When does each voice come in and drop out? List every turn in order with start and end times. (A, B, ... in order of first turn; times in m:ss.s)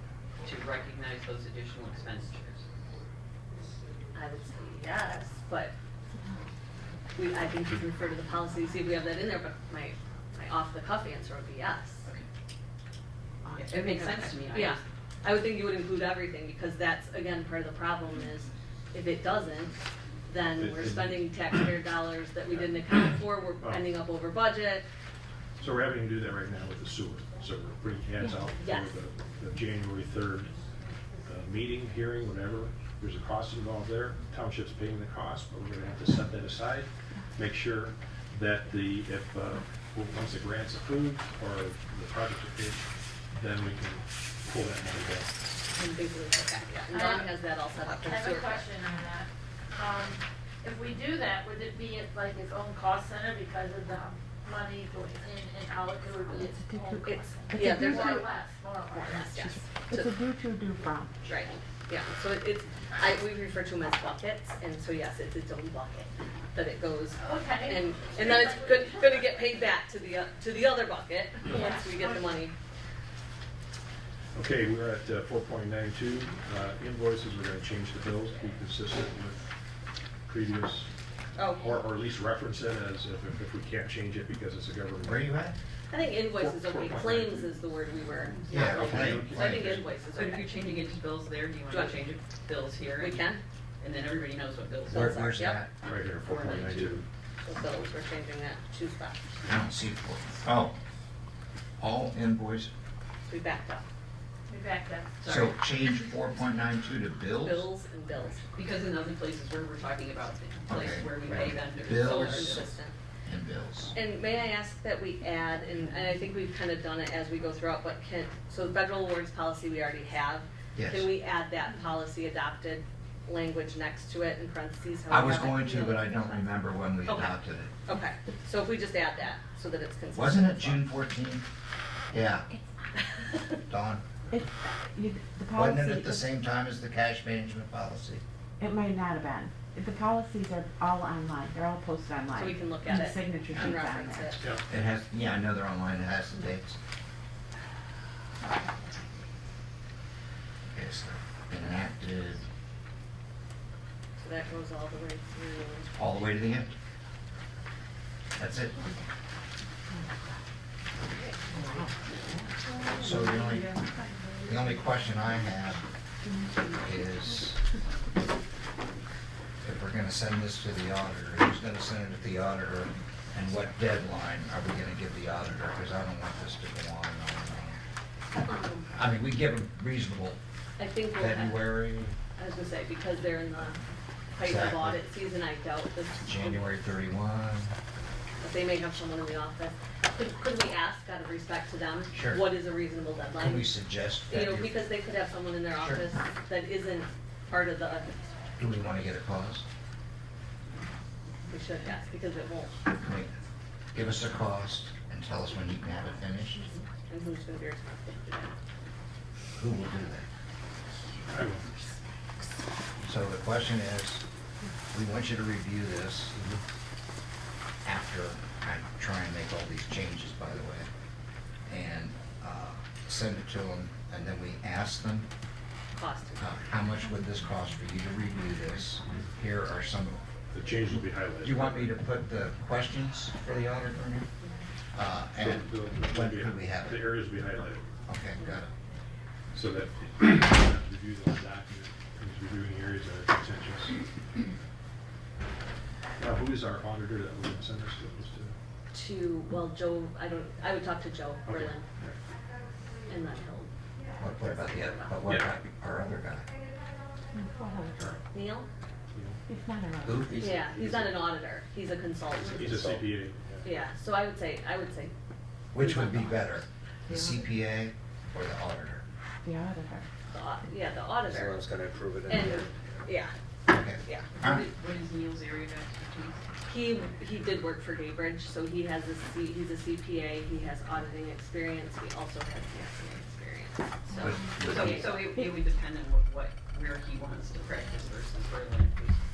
0:00.4-0:02.6 A
0:04.1-0:05.7 B
0:07.2-0:12.0 B
0:13.4-0:13.7 C
0:13.5-0:14.8 A
0:13.8-0:24.8 B
0:20.6-0:21.5 D
0:22.5-0:22.8 D
0:23.6-0:23.9 D
0:25.6-0:30.6 D
0:28.6-0:29.0 B
0:31.2-0:45.3 D
0:45.7-0:48.7 B
0:46.9-0:59.2 E
0:56.4-0:58.2 C
0:57.0-0:58.3 B
0:58.9-1:00.1 B
0:58.9-1:01.2 C
1:01.2-1:12.5 B
1:07.2-1:09.2 E
1:11.5-1:12.4 E
1:14.3-1:19.5 D
1:20.2-1:20.9 D
1:21.4-1:21.7 B
1:21.5-1:25.3 D
1:25.0-1:25.6 F
1:25.9-1:30.5 B
1:26.2-1:27.6 D
1:28.5-1:29.9 D
1:28.5-1:29.7 F
1:30.1-1:33.3 A
1:31.7-1:32.0 B
1:33.0-1:33.4 B
1:33.8-1:35.2 A
1:34.9-1:35.7 F
1:34.9-1:35.7 B
1:35.8-1:37.0 D
1:36.2-1:37.0 A
1:37.4-1:39.3 B
1:39.4-1:40.7 F
1:41.8-1:42.7 F
1:43.2-1:43.8 B
1:44.5-1:45.2 E
1:45.2-1:45.5 A
1:45.2-1:47.7 F
1:47.4-1:48.6 B
1:48.5-1:52.7 A
1:50.7-1:52.7 F
1:51.3-1:52.9 B
1:53.2-1:53.9 F
1:53.9-2:06.1 B
2:00.8-2:01.1 F
2:05.1-2:07.7 F
2:07.1-2:10.9 B
2:10.1-2:11.4 F
2:12.1-2:12.5 F
2:13.0-2:13.6 B
2:13.7-2:14.0 F
2:14.3-2:16.2 C
2:15.5-2:18.2 F
2:18.6-2:24.4 C
2:22.3-2:24.4 B
2:24.4-2:24.6 D
2:24.7-2:26.8 F
2:30.7-2:32.4 F
2:34.2-2:36.0 B
2:36.0-2:36.7 F
2:38.4-2:38.8 F
2:41.5-2:41.9 C
2:42.8-2:43.8 F
2:44.4-2:45.8 F
2:46.7-2:47.6 F
2:49.6-2:57.8 F
2:58.3-2:58.9 B
2:58.9-3:00.4 F
3:00.8-3:01.8 B
3:01.1-3:02.2 F
3:02.4-3:03.8 B
3:04.3-3:06.7 B
3:04.4-3:05.0 F
3:06.2-3:07.7 F
3:08.4-3:13.7 B
3:12.1-3:12.4 F
3:13.4-3:14.7 F
3:14.3-3:18.2 B
3:15.8-3:16.0 F
3:18.6-3:19.6 F
3:21.5-3:22.8 B
3:23.0-3:23.3 F
3:23.9-3:26.7 F
3:27.1-3:28.5 B
3:29.5-3:30.3 F
3:31.3-3:31.7 D
3:33.0-3:34.2 F
3:34.9-3:36.3 F
3:36.3-3:36.6 D
3:37.8-3:40.9 F
3:41.7-3:45.3 F
3:45.9-3:46.5 B
3:46.4-3:50.2 F
3:50.5-3:51.9 D
3:51.4-3:54.3 F
3:54.9-3:57.1 F
3:55.3-3:57.9 D
3:58.1-3:58.7 F
3:59.5-4:03.9 D
4:06.2-4:08.6 D
4:08.9-4:11.9 B
4:11.4-4:12.2 D
4:13.1-4:13.7 B
4:14.2-4:16.5 F
4:14.4-4:15.2 B
4:15.2-4:15.5 D
4:17.3-4:18.1 C
4:18.3-4:18.7 B
4:19.1-4:19.4 D
4:19.5-4:20.3 C
4:20.4-4:22.8 B
4:20.4-4:21.0 G
4:22.4-4:23.2 G
4:22.5-4:23.6 D
4:23.6-4:25.1 B
4:25.7-4:26.6 B
4:25.7-4:29.0 F
4:29.4-4:30.1 C
4:30.3-4:31.6 B
4:31.3-4:32.6 G
4:32.3-4:33.3 B
4:33.7-4:34.6 F
4:34.0-4:34.4 B
4:34.4-4:36.4 A
4:36.7-4:45.2 B
4:44.2-4:45.1 F
4:44.5-4:49.2 A